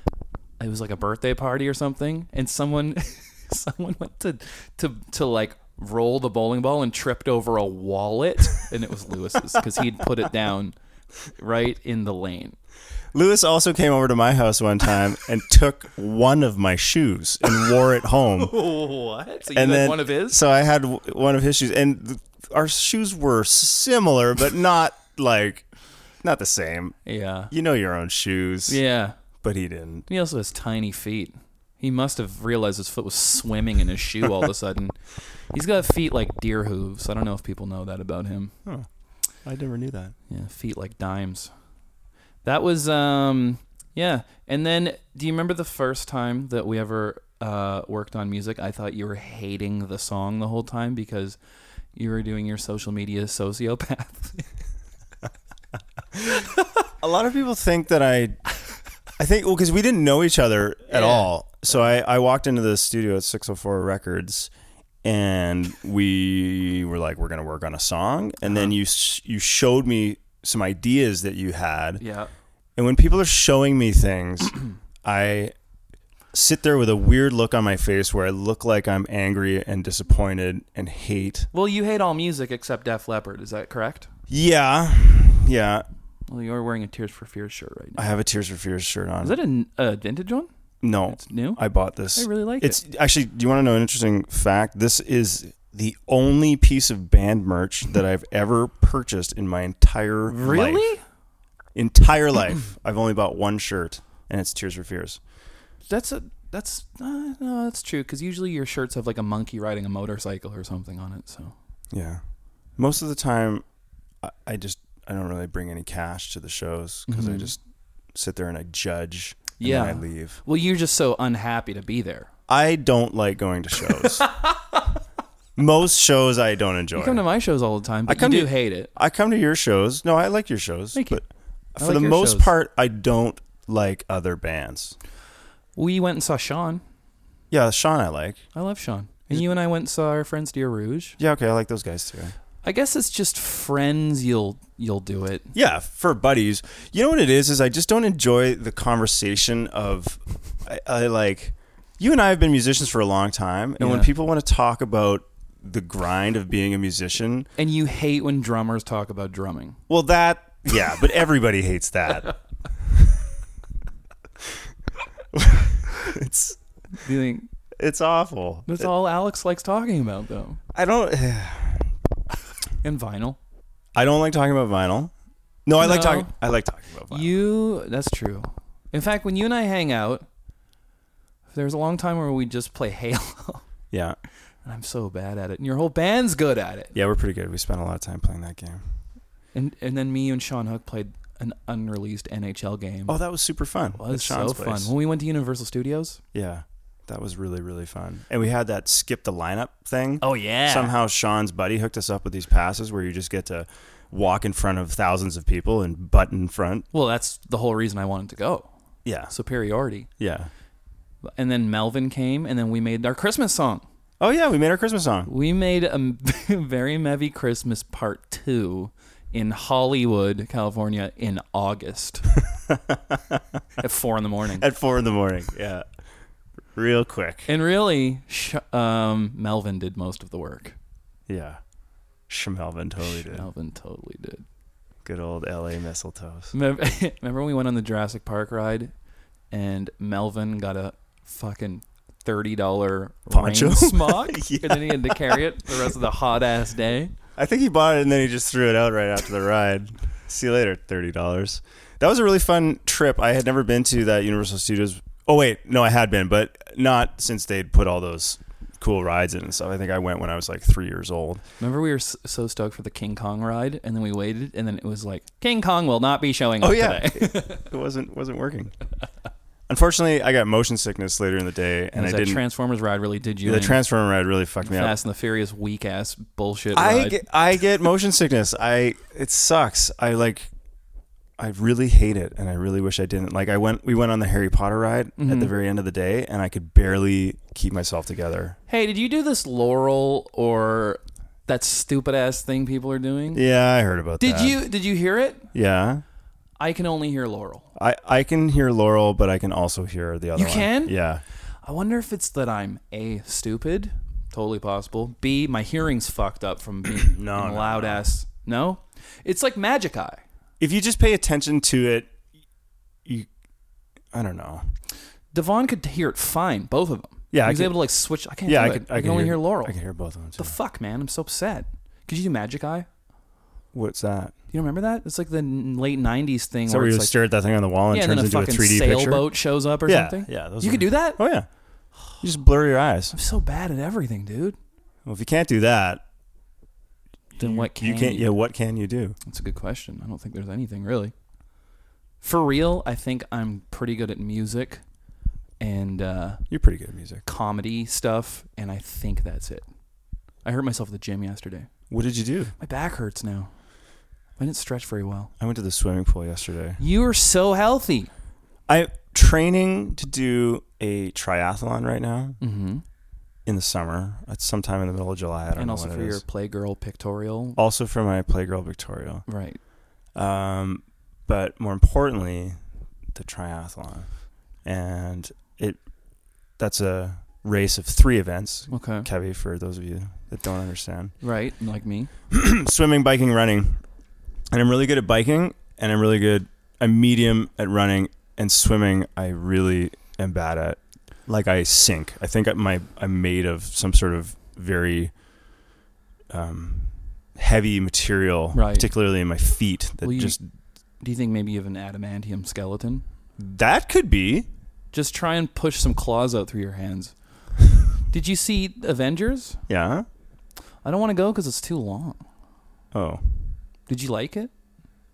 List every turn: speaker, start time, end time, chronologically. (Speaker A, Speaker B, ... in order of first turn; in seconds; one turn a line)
Speaker A: 0.6-10.8
Speaker A: 11.4-12.6
Speaker B: 13.1-18.5
Speaker A: 18.4-20.4
Speaker B: 19.5-25.6
Speaker B: 26.2-27.0
Speaker A: 27.1-27.5
Speaker B: 27.5-28.8
Speaker A: 28.7-29.2
Speaker B: 29.4-30.1
Speaker A: 30.1-35.0
Speaker A: 35.5-38.5
Speaker B: 39.5-40.1
Speaker A: 40.3-41.5
Speaker A: 42.4-51.4
Speaker A: 51.9-54.5
Speaker B: 57.0-58.4
Speaker B: 59.2-64.5
Speaker A: 60.9-61.3
Speaker B: 65.0-72.0
Speaker A: 68.5-68.7
Speaker A: 72.0-72.3
Speaker B: 72.8-75.5
Speaker B: 76.3-81.5
Speaker A: 81.5-84.1
Speaker B: 84.3-85.9
Speaker A: 86.3-88.0
Speaker B: 88.0-89.4
Speaker A: 89.2-90.5
Speaker B: 90.8-100.8
Speaker A: 91.1-91.6
Speaker A: 92.1-92.8
Speaker A: 100.3-101.0
Speaker B: 101.8-105.2
Speaker A: 105.9-111.5
Speaker B: 111.9-112.2
Speaker B: 112.8-113.6
Speaker B: 114.2-117.6
Speaker A: 117.1-117.5
Speaker B: 118.1-120.4
Speaker A: 119.6-122.3
Speaker B: 122.5-124.3
Speaker B: 125.6-127.2
Speaker A: 127.0-128.9
Speaker B: 128.1-134.9
Speaker A: 130.9-131.2
Speaker A: 131.8-132.5
Speaker A: 135.8-136.8
Speaker B: 137.5-138.4
Speaker A: 138.5-141.2
Speaker B: 141.2-142.3
Speaker A: 142.6-145.5
Speaker B: 145.5-157.5
Speaker A: 153.8-154.1
Speaker A: 157.6-159.8
Speaker B: 159.9-162.3
Speaker B: 162.9-163.1
Speaker B: 165.3-166.6
Speaker A: 166.9-167.5
Speaker B: 167.8-168.9
Speaker A: 168.7-170.6
Speaker B: 170.7-171.9
Speaker A: 172.8-173.4
Speaker B: 173.9-175.1
Speaker B: 175.7-177.3
Speaker A: 175.8-176.3
Speaker A: 177.1-180.3
Speaker A: 181.5-183.6
Speaker B: 183.9-184.2
Speaker A: 184.7-186.9
Speaker B: 186.9-188.8
Speaker A: 189.5-193.2
Speaker B: 193.1-194.9
Speaker A: 194.0-196.2
Speaker B: 196.3-206.9
Speaker A: 200.2-200.9
Speaker A: 206.9-208.7
Speaker B: 209.1-209.3
Speaker A: 209.3-210.1
Speaker B: 210.2-210.5
Speaker A: 211.3-213.8
Speaker B: 214.2-215.3
Speaker A: 215.3-222.3
Speaker B: 222.7-223.4
Speaker A: 223.8-224.7
Speaker B: 224.6-225.8
Speaker B: 226.7-227.5
Speaker A: 227.5-230.8
Speaker B: 231.3-231.6
Speaker B: 232.3-233.5
Speaker A: 233.0-234.4
Speaker B: 235.1-236.5
Speaker A: 236.5-238.9
Speaker A: 239.5-247.1
Speaker B: 243.3-245.5
Speaker B: 247.4-261.4
Speaker A: 261.6-267.6
Speaker B: 266.6-268.7
Speaker B: 269.7-272.4
Speaker A: 271.9-273.8
Speaker B: 273.4-275.0
Speaker A: 274.6-277.2
Speaker B: 276.7-280.5
Speaker B: 281.4-288.6
Speaker A: 285.2-285.5
Speaker A: 288.7-293.4
Speaker B: 293.3-294.6
Speaker A: 294.2-295.5
Speaker B: 295.5-296.0
Speaker A: 296.6-297.7
Speaker B: 297.8-301.2
Speaker A: 300.4-300.9
Speaker A: 301.6-310.2
Speaker B: 307.0-308.0
Speaker B: 310.6-312.1
Speaker B: 314.1-314.6
Speaker A: 315.3-319.8
Speaker B: 317.3-317.8
Speaker B: 318.4-320.6
Speaker A: 320.4-322.9
Speaker B: 323.7-324.3
Speaker A: 324.5-327.1
Speaker B: 326.7-329.3
Speaker A: 327.9-331.2
Speaker B: 329.9-331.5
Speaker B: 332.2-333.1
Speaker A: 333.1-334.6
Speaker B: 335.1-336.0
Speaker A: 337.4-338.3
Speaker B: 337.4-339.2
Speaker A: 339.3-341.1
Speaker A: 342.2-344.8
Speaker A: 345.6-346.4
Speaker B: 346.5-347.2
Speaker A: 347.2-349.7
Speaker A: 350.4-351.7
Speaker B: 351.9-352.6
Speaker A: 352.6-353.5
Speaker A: 354.4-355.3
Speaker B: 355.4-356.8
Speaker A: 356.8-358.1
Speaker B: 358.7-362.4
Speaker A: 362.4-362.8
Speaker B: 363.5-366.2
Speaker A: 365.6-367.6
Speaker B: 367.6-369.2
Speaker A: 369.3-369.6
Speaker B: 370.1-372.6
Speaker B: 373.1-374.1
Speaker B: 374.6-375.8
Speaker B: 376.6-381.1
Speaker A: 378.7-379.1
Speaker A: 381.2-382.1
Speaker B: 382.3-383.8
Speaker B: 384.5-395.1
Speaker B: 396.3-400.4
Speaker A: 398.5-398.9
Speaker A: 400.0-400.4
Speaker A: 401.0-403.0
Speaker B: 403.4-404.5
Speaker A: 404.9-407.1
Speaker A: 408.1-409.6
Speaker B: 409.7-410.1
Speaker A: 410.8-412.2
Speaker B: 412.9-413.4
Speaker A: 413.9-414.5